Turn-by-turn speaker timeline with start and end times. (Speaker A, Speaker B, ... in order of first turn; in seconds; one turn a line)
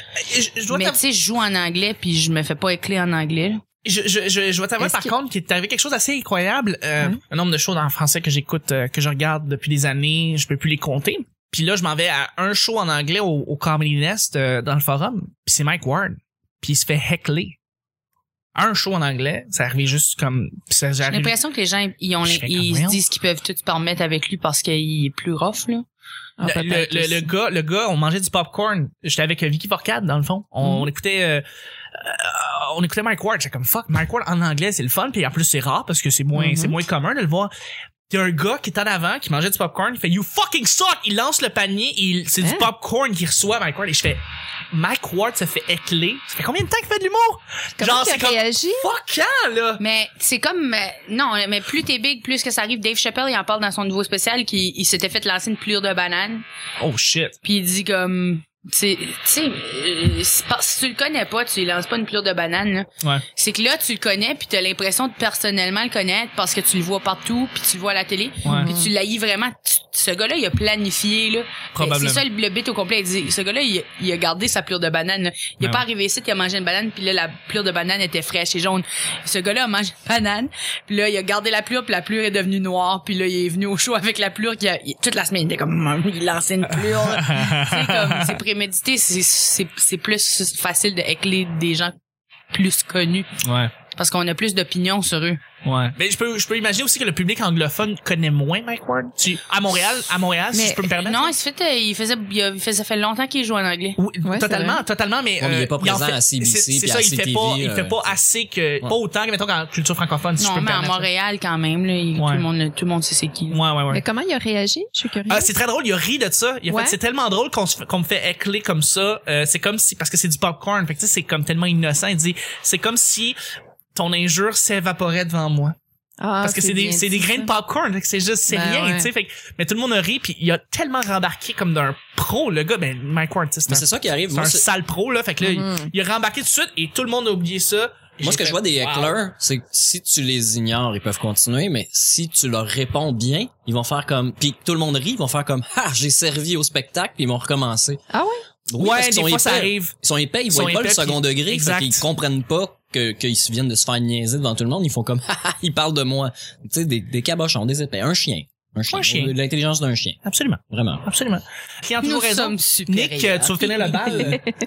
Speaker A: 0.2-1.0
Speaker B: 0.7-3.6
Speaker A: 3.8-17.6
Speaker C: 4.8-5.1
Speaker A: 18.6-21.4
Speaker B: 21.1-25.9
Speaker A: 22.2-23.0
Speaker C: 26.4-27.3
Speaker A: 26.4-31.4
Speaker C: 30.6-30.9
Speaker A: 31.9-37.5
Speaker C: 36.4-36.8
Speaker A: 38.1-44.2
Speaker C: 42.4-42.7
Speaker A: 44.7-49.8
Speaker C: 47.8-48.9
Speaker B: 49.8-56.4
Speaker A: 56.8-57.4
Speaker B: 57.4-91.9
Speaker A: 68.4-68.7
Speaker C: 68.5-68.9
Speaker A: 71.8-72.2
Speaker A: 86.8-88.4
Speaker B: 92.5-93.3
Speaker A: 93.4-93.7
Speaker B: 93.9-95.4
Speaker A: 95.7-101.3
Speaker C: 100.5-100.8
Speaker B: 101.0-104.0
Speaker A: 104.0-111.1
Speaker C: 104.2-104.8
Speaker D: 105.4-108.2
Speaker B: 110.4-113.6
Speaker A: 112.2-112.5
Speaker A: 113.5-114.0
Speaker C: 113.9-115.5
Speaker A: 115.3-123.4
Speaker C: 116.7-117.0
Speaker A: 124.0-125.8
Speaker C: 126.2-127.5
Speaker A: 126.4-139.2
Speaker C: 128.5-129.1
Speaker D: 133.7-134.7
Speaker C: 135.4-135.9
Speaker D: 138.2-148.0
Speaker C: 148.1-148.4
Speaker D: 148.7-160.2
Speaker A: 148.8-149.9
Speaker A: 150.5-152.1
Speaker A: 158.9-159.3
Speaker A: 160.2-164.4
Speaker D: 160.7-161.1
Speaker B: 162.0-164.3
Speaker C: 164.1-164.4